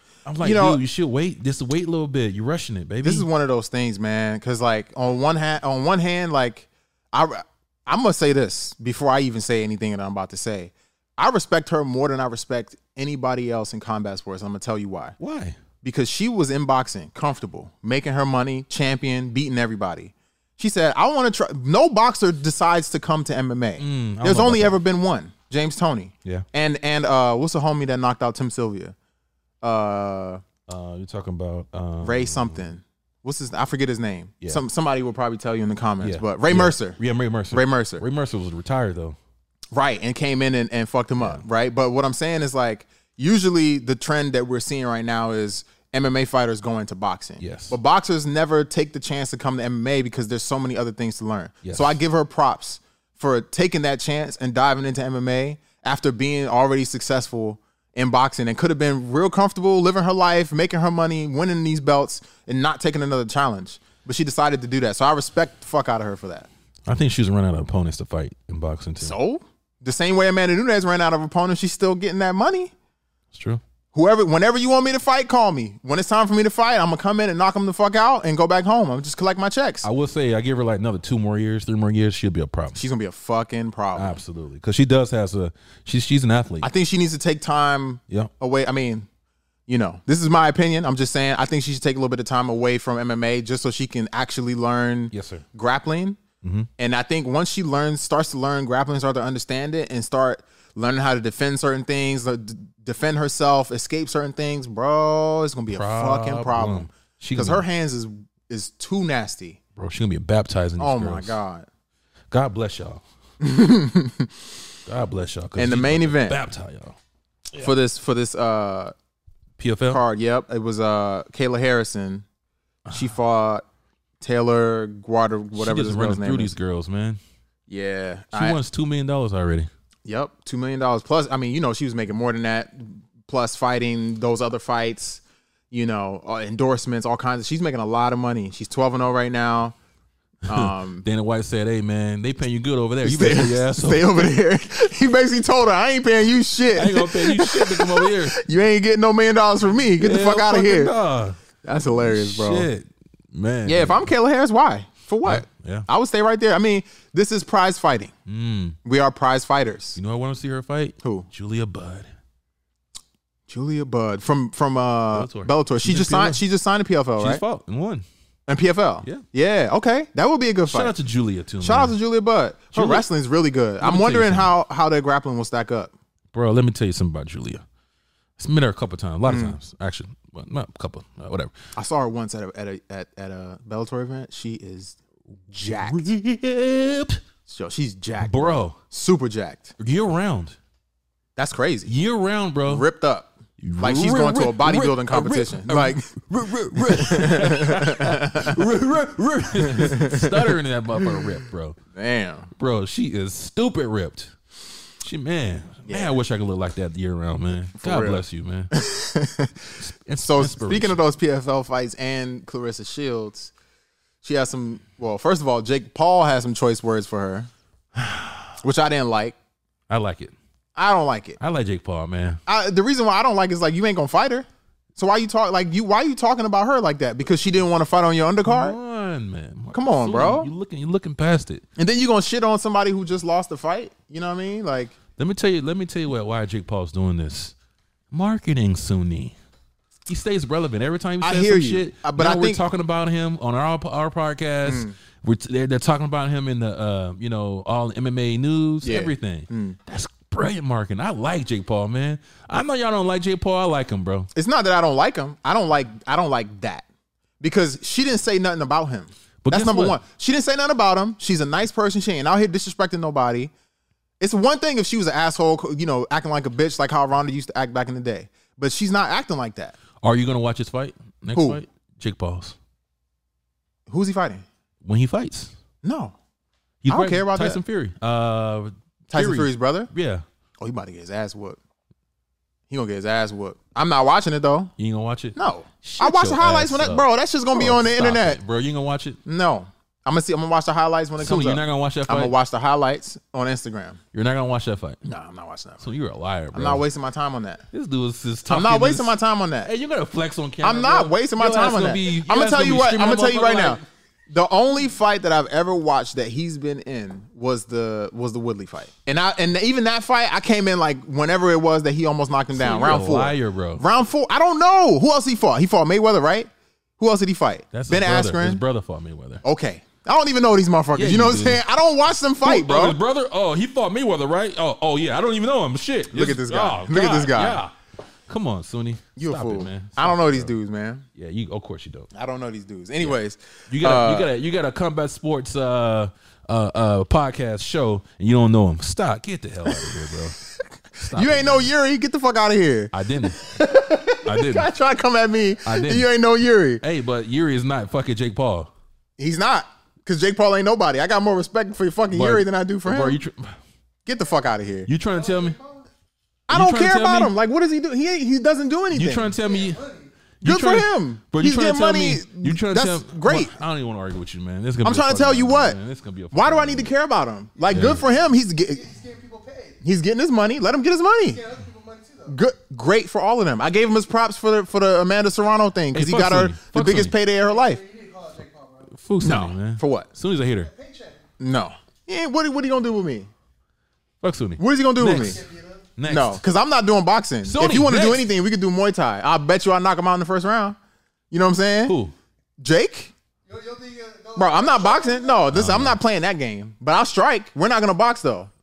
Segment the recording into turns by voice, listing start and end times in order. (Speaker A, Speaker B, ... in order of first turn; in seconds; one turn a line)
Speaker A: 0.2-3.3
Speaker B: 0.4-0.8
Speaker B: 3.0-15.2
Speaker A: 15.2-15.6
Speaker B: 15.8-28.9
Speaker A: 23.8-24.8
Speaker B: 29.6-30.4
Speaker A: 30.7-32.7
Speaker B: 32.0-37.0
Speaker A: 36.0-39.2
Speaker B: 37.5-38.0
Speaker B: 39.7-66.5
Speaker A: 41.2-41.4
Speaker A: 47.4-47.8
Speaker A: 51.6-52.0
Speaker A: 66.8-69.1
Speaker B: 69.0-72.7
Speaker A: 73.3-73.6
Speaker B: 73.9-79.8
Speaker A: 79.8-82.8
Speaker B: 82.7-84.2
Speaker A: 84.0-86.7
Speaker B: 86.6-89.1
Speaker B: 89.7-96.2
Speaker A: 95.1-95.4
Speaker A: 96.4-96.7
Speaker B: 96.8-109.6
Speaker A: 105.7-107.7
Speaker A: 109.8-111.4
Speaker B: 110.8-111.7
Speaker A: 112.3-113.0
Speaker B: 113.4-114.5
Speaker A: 114.9-117.0
Speaker B: 115.5-116.4
Speaker B: 117.5-118.9
Speaker A: 119.6-120.0
Speaker B: 119.9-122.2
Speaker B: 122.9-123.6
Speaker B: 124.2-126.5
Speaker A: 125.5-127.2
Speaker B: 127.7-128.6
Speaker A: 128.3-129.7
Speaker B: 130.1-139.7
Speaker B: 140.4-141.0
Speaker A: 140.5-144.3
Speaker B: 143.0-150.9
Speaker A: 146.7-148.4
Speaker A: 150.0-154.1
Speaker B: 151.6-152.7
Speaker B: 153.7-158.1
Speaker A: 155.2-155.9
Speaker A: 158.2-158.8
Speaker B: 158.8-160.0
Speaker A: 159.9-162.1
Speaker B: 161.0-161.3
Speaker B: 163.5-167.4
Speaker A: 165.1-166.4
Speaker A: 167.2-168.0
Speaker B: 168.5-170.9
Speaker A: 170.7-171.9
Speaker B: 171.6-175.9
Speaker A: 172.7-173.1
Speaker A: 173.8-174.5
Speaker A: 176.3-177.6
Speaker A: 178.4-181.5
Speaker B: 179.2-179.6
Speaker B: 181.7-185.0
Speaker B: 185.5-186.1
Speaker A: 185.8-187.2
Speaker B: 187.5-189.7
Speaker A: 188.2-188.8
Speaker A: 189.8-190.6
Speaker B: 191.3-191.9
Speaker A: 191.9-192.8
Speaker B: 192.7-196.1
Speaker A: 193.6-201.8
Speaker B: 196.7-198.6
Speaker B: 199.6-200.5
Speaker B: 201.9-202.5
Speaker A: 202.6-204.3
Speaker A: 205.0-208.7
Speaker B: 205.9-206.1
Speaker B: 207.8-213.5
Speaker A: 209.8-211.0
Speaker B: 214.2-217.5
Speaker A: 217.9-218.5
Speaker B: 218.6-219.3
Speaker A: 219.9-220.3
Speaker B: 220.8-221.4
Speaker A: 221.4-222.4
Speaker B: 222.5-228.8
Speaker A: 228.4-231.6
Speaker B: 229.7-230.5
Speaker B: 231.8-234.9
Speaker A: 235.2-237.5
Speaker A: 238.1-239.3
Speaker A: 240.1-254.3
Speaker B: 241.2-242.6
Speaker B: 244.6-244.9
Speaker B: 248.8-249.8
Speaker B: 254.3-256.9
Speaker B: 257.4-263.5
Speaker A: 259.4-260.0
Speaker B: 264.2-269.8
Speaker A: 270.0-272.6
Speaker B: 271.3-271.6
Speaker B: 273.9-274.4
Speaker A: 274.8-275.5
Speaker B: 275.8-276.1
Speaker A: 276.8-280.2
Speaker B: 276.9-277.6
Speaker B: 279.1-279.9
Speaker B: 280.6-281.6
Speaker B: 282.7-284.7
Speaker A: 284.8-289.2
Speaker B: 285.4-288.4
Speaker B: 289.2-294.0
Speaker A: 291.2-292.3
Speaker A: 294.1-295.0
Speaker B: 295.0-295.9
Speaker A: 295.8-296.9
Speaker B: 296.5-297.6
Speaker A: 297.7-303.8
Speaker B: 298.5-299.7
Speaker B: 300.6-318.6
Speaker A: 312.5-313.8
Speaker A: 317.7-319.4
Speaker B: 319.4-323.0
Speaker A: 320.9-321.6
Speaker A: 322.4-327.7
Speaker B: 326.1-327.6
Speaker A: 328.3-330.5
Speaker B: 329.1-331.0
Speaker A: 331.1-332.1
Speaker B: 332.1-334.3
Speaker A: 333.0-340.4
Speaker B: 339.6-340.1
Speaker B: 341.0-346.8
Speaker A: 341.0-341.7
Speaker A: 342.9-343.4
Speaker A: 344.2-344.7
Speaker A: 345.6-346.1
Speaker A: 346.8-348.7
Speaker B: 349.2-353.2
Speaker A: 352.1-353.6
Speaker B: 354.1-354.9
Speaker A: 354.9-355.6
Speaker C: 355.1-355.9
Speaker B: 356.5-359.3
Speaker A: 356.5-357.3
Speaker A: 358.9-359.8
Speaker C: 359.4-360.1
Speaker A: 360.4-366.9
Speaker B: 360.4-363.5
Speaker B: 364.8-365.8
Speaker B: 366.3-368.8
Speaker A: 367.7-368.0
Speaker C: 367.7-369.8
Speaker B: 369.8-371.4
Speaker C: 371.3-372.4
Speaker B: 372.3-377.8
Speaker A: 375.9-377.1
Speaker C: 377.4-378.9
Speaker A: 378.9-380.7
Speaker B: 379.2-380.1
Speaker C: 380.6-381.2
Speaker B: 381.4-383.3
Speaker A: 384.2-385.4
Speaker B: 384.6-385.4
Speaker C: 385.1-385.9
Speaker A: 386.0-386.4
Speaker B: 386.1-390.8
Speaker A: 387.4-388.3
Speaker B: 391.3-391.9
Speaker A: 391.9-392.1
Speaker B: 392.6-393.1
Speaker C: 393.5-395.5
Speaker B: 394.4-398.5
Speaker A: 395.5-396.0